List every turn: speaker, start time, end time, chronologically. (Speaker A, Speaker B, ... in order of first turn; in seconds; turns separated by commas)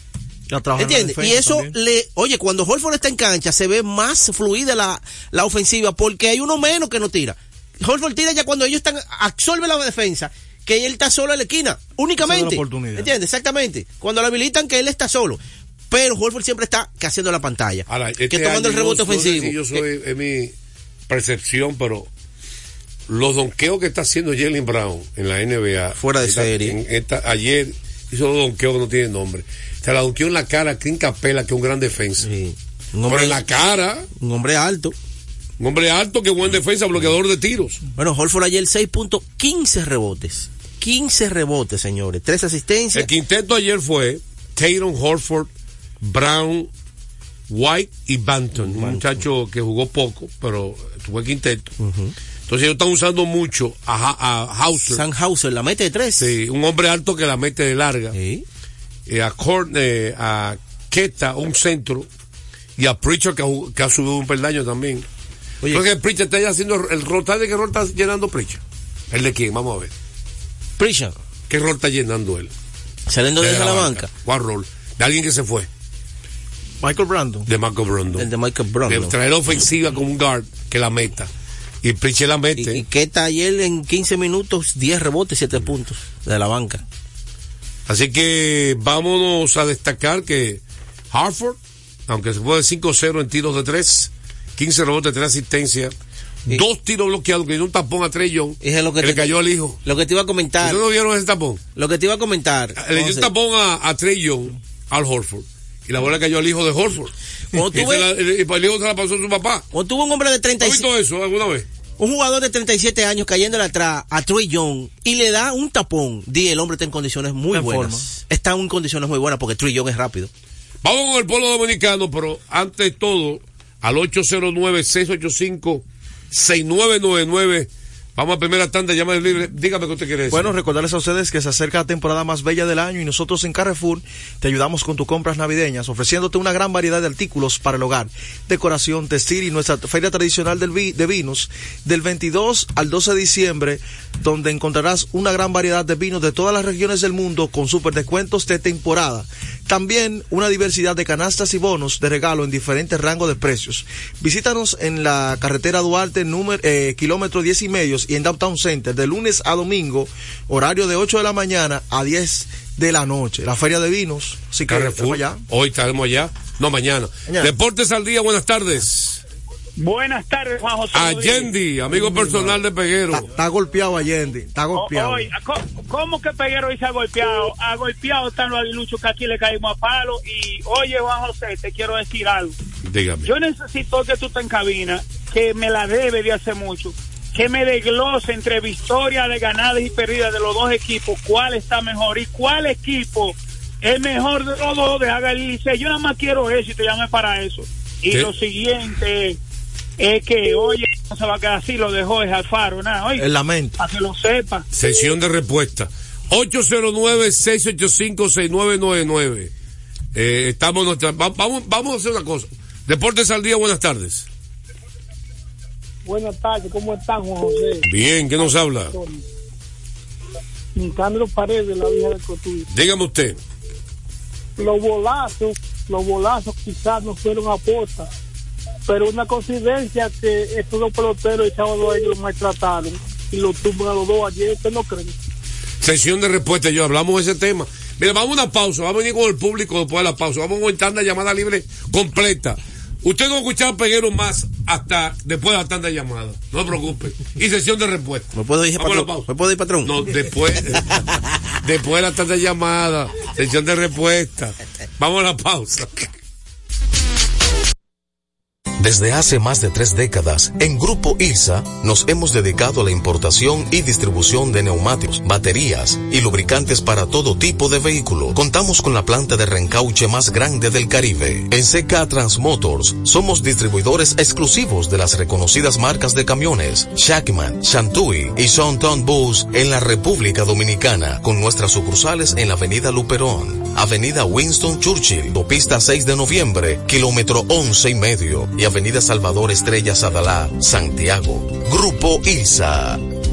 Speaker A: 0.5-1.7, Speaker B: 0.8-19.8, Speaker A: 12.2-13.1, Speaker C: 17.9-20.5, Speaker C: 21.1-22.1, Speaker C: 23.1-32.3, Speaker B: 26.0-26.8, Speaker B: 32.2-33.4, Speaker C: 33.1-34.1, Speaker B: 34.1-34.9, Speaker C: 35.6-37.8, Speaker B: 38.0-43.1, Speaker C: 42.9-45.5, Speaker C: 46.0-46.7, Speaker C: 47.5-51.7, Speaker B: 48.6-49.1, Speaker B: 51.8-52.1, Speaker C: 52.5-55.0, Speaker B: 54.9-56.3, Speaker C: 56.2-58.1, Speaker B: 58.1-58.4, Speaker C: 59.1-62.1, Speaker C: 62.8-65.0, Speaker C: 65.7-69.9, Speaker B: 70.8-71.1, Speaker C: 71.5-72.5, Speaker B: 73.1-74.1, Speaker C: 73.4-75.7, Speaker A: 76.8-77.5, Speaker C: 77.5-78.3, Speaker B: 78.2-79.1, Speaker C: 78.9-81.3, Speaker C: 81.8-82.8, Speaker B: 82.6-86.8, Speaker C: 87.9-91.6, Speaker C: 92.1-95.9, Speaker C: 96.5-99.8, Speaker B: 98.6-100.8, Speaker C: 100.6-101.6, Speaker B: 101.8-103.3, Speaker C: 102.8-107.1, Speaker B: 107.5-108.1, Speaker C: 107.7-109.7, Speaker B: 109.7-110.8, Speaker C: 110.6-111.7, Speaker B: 112.0-120.3, Speaker A: 117.5-118.1, Speaker C: 120.8-130.5, Speaker A: 130.3-165.4, Speaker C: 164.7-169.2, Speaker D: 169.8-171.5, Speaker C: 170.9-173.3, Speaker A: 171.9-172.6, Speaker A: 173.1-175.3, Speaker D: 174.7-182.6, Speaker C: 182.8-183.3, Speaker D: 183.2-199.4, Speaker D: 200.0-203.3, Speaker A: 203.2-203.8, Speaker D: 203.8-204.6, Speaker C: 204.7-209.5, Speaker C: 210.1-214.2, Speaker E: 216.1-217.8, Speaker C: 217.8-218.9, Speaker E: 220.8-222.6, Speaker C: 222.7-223.4, Speaker E: 224.6-228.0, Speaker E: 228.9-235.1, Speaker C: 235.8-249.3, Speaker B: 248.3-249.9, Speaker C: 249.8-251.0, Speaker C: 251.6-256.0, Speaker F: 258.8-293.0